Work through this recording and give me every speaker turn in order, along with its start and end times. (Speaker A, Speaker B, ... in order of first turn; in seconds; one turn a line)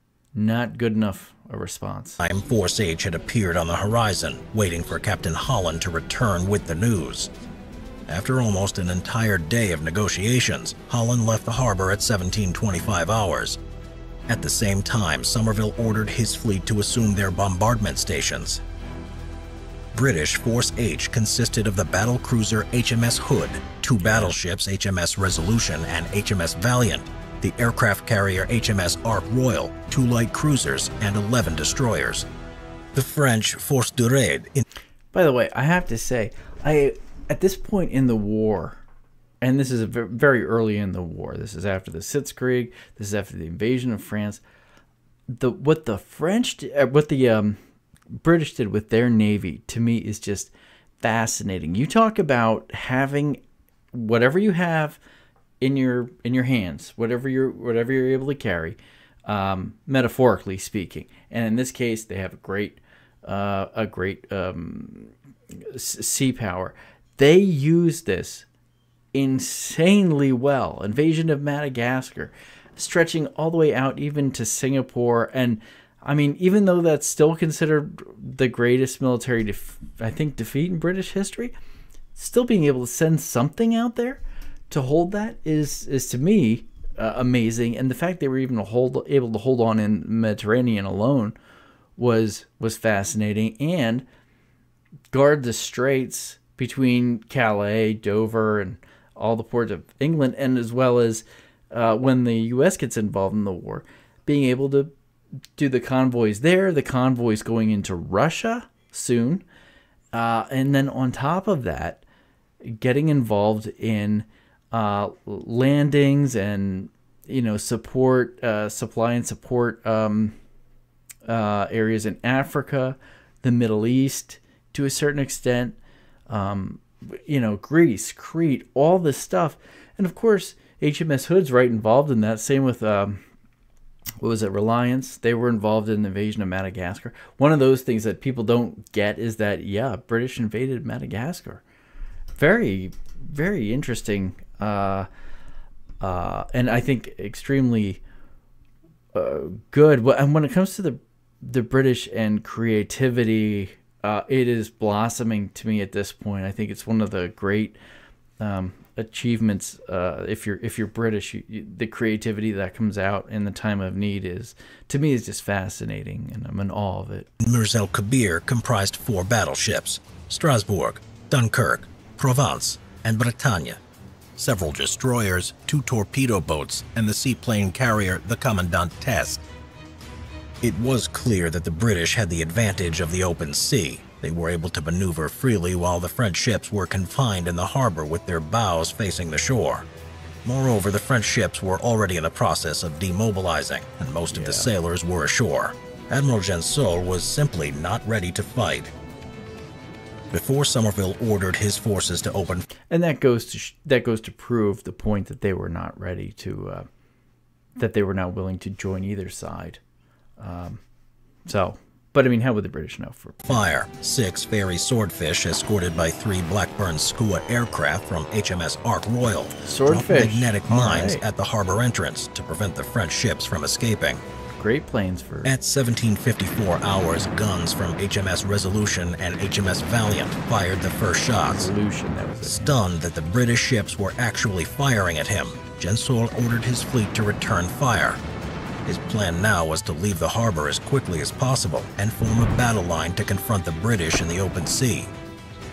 Speaker A: 0.3-2.2
Speaker B: 2.2-7.3
Speaker B: 8.1-13.6
Speaker B: 14.3-18.6
Speaker B: 19.9-32.3
Speaker A: 24.0-24.3
Speaker B: 32.9-34.6
Speaker A: 35.1-38.8
Speaker A: 39.4-44.4
Speaker A: 45.3-47.6
Speaker A: 48.2-55.0
Speaker A: 55.6-68.5
Speaker A: 69.1-81.5
Speaker A: 82.1-91.3
Speaker A: 92.0-94.0
Speaker A: 95.1-104.9
Speaker A: 105.6-109.4
Speaker A: 110.1-112.0
Speaker A: 112.6-120.3
Speaker A: 121.2-125.8
Speaker A: 126.3-133.2
Speaker A: 134.2-141.6
Speaker A: 142.4-145.1
Speaker A: 146.0-148.0
Speaker A: 149.1-157.8
Speaker A: 158.4-167.3
Speaker B: 167.4-173.8
Speaker B: 174.3-179.4
Speaker B: 180.6-189.9
Speaker B: 190.4-198.9
Speaker A: 194.3-194.7
Speaker B: 200.3-202.6
Speaker A: 202.9-206.9
Speaker A: 207.8-209.8
Speaker A: 210.4-210.8
Speaker A: 211.4-213.6
Speaker B: 213.4-224.2
Speaker A: 219.6-221.2
Speaker A: 224.5-225.5
Speaker B: 225.4-231.7
Speaker A: 231.4-232.8
Speaker B: 232.4-238.2
Speaker B: 238.8-245.1